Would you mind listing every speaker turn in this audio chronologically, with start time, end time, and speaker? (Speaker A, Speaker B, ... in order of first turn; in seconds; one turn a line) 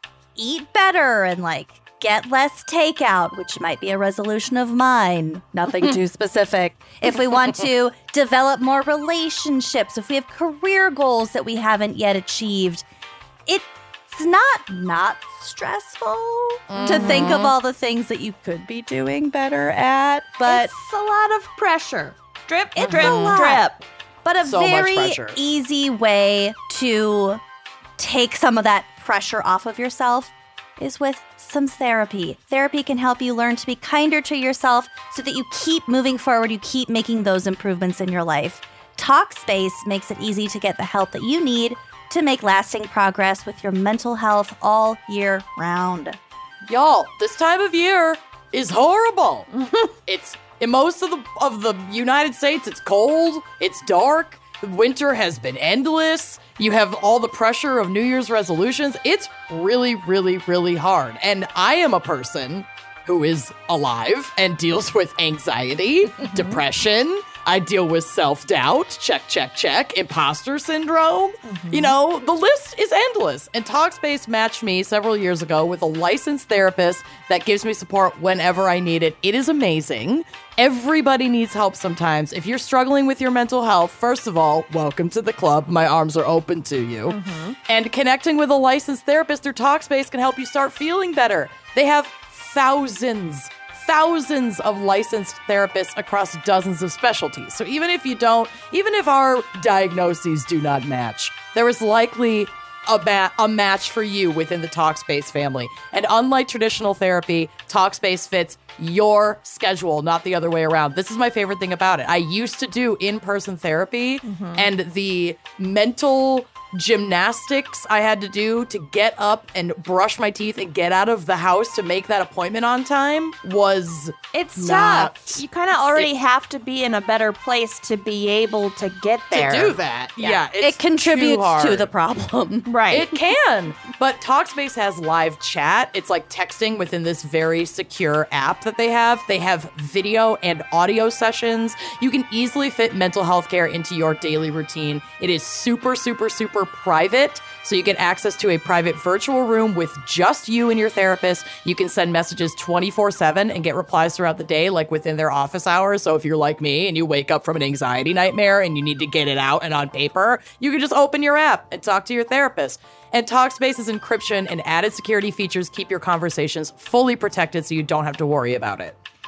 Speaker A: 0.3-12.8
Speaker A: 13.4-20.7
Speaker B: 16.7-17.5
Speaker C: 16.8-17.3
Speaker C: 20.4-23.8
Speaker B: 22.8-23.4
Speaker A: 23.0-23.6
Speaker A: 24.2-27.4
Speaker B: 24.4-25.4
Speaker A: 28.0-46.2
Speaker B: 46.7-49.5
Speaker B: 50.0-126.1
Speaker C: 66.2-66.6
Speaker C: 71.4-71.9
Speaker C: 87.1-87.6
Speaker C: 114.2-114.7
Speaker C: 124.3-130.4
Speaker B: 129.3-131.9
Speaker A: 130.6-132.7
Speaker C: 132.7-133.1
Speaker B: 132.9-168.9